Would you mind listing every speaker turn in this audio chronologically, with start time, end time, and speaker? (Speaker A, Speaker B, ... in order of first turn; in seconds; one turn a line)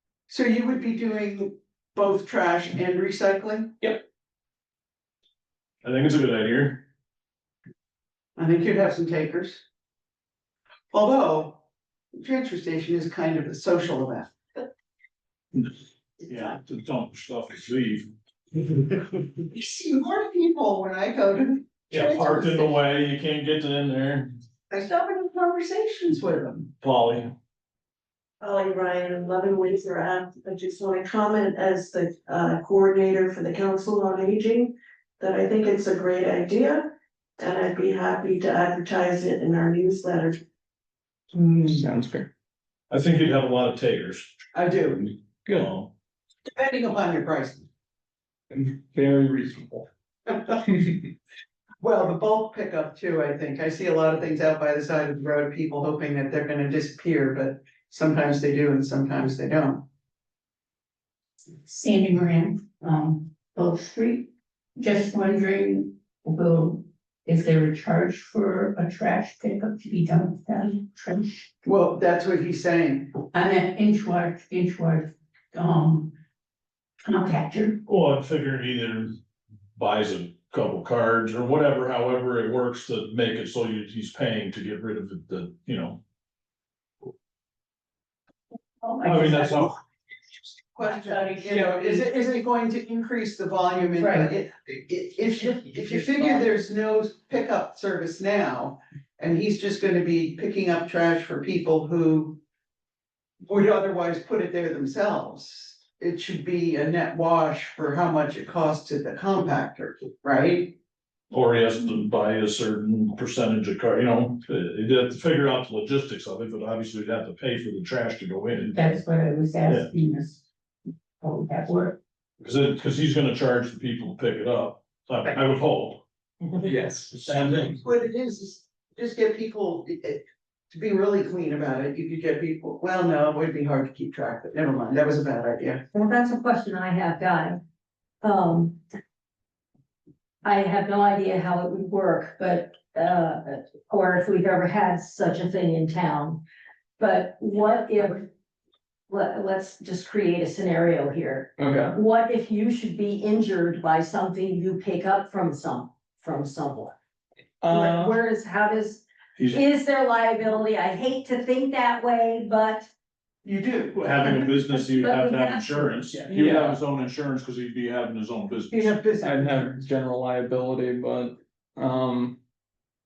Speaker A: 0.3-3.7
Speaker B: 5.8-6.8
Speaker A: 8.4-9.6
Speaker A: 10.9-11.6
Speaker A: 12.2-14.3
Speaker B: 16.2-18.1
Speaker A: 18.6-22.8
Speaker B: 21.9-24.3
Speaker A: 24.7-26.7
Speaker B: 26.8-27.3
Speaker C: 28.4-40.4
Speaker A: 41.4-41.8
Speaker D: 41.6-42.3
Speaker B: 42.9-44.3
Speaker A: 44.5-45.1
Speaker D: 45.5-45.7
Speaker B: 45.5-45.9
Speaker A: 46.4-47.7
Speaker D: 48.5-49.9
Speaker A: 50.3-50.6
Speaker A: 51.8-59.8
Speaker E: 61.6-71.3
Speaker A: 71.6-73.2
Speaker E: 73.3-76.2
Speaker E: 77.0-77.8
Speaker B: 77.8-79.2
Speaker B: 79.7-86.0
Speaker E: 88.8-89.7
Speaker B: 89.0-89.7
Speaker A: 90.7-102.4
Speaker E: 90.8-92.4
Speaker E: 94.0-94.3
Speaker A: 103.5-110.8
Speaker B: 111.3-119.0
Speaker E: 118.7-120.4
Speaker B: 119.6-119.9
Speaker E: 121.2-122.0
Speaker B: 122.4-126.0
Speaker D: 126.5-127.3
Speaker B: 127.1-127.8
Speaker A: 127.7-135.8
Speaker F: 135.9-137.6
Speaker F: 138.2-138.8
Speaker F: 140.4-146.4
Speaker F: 147.0-148.3
Speaker F: 149.1-156.9
Speaker D: 151.6-152.0
Speaker D: 157.6-158.2
Speaker F: 157.7-162.9
Speaker B: 159.4-159.6
Speaker A: 163.4-164.5
Speaker B: 163.9-169.0
Speaker F: 164.8-165.9
Speaker D: 166.3-166.8
Speaker A: 168.7-169.8
Speaker D: 169.2-172.4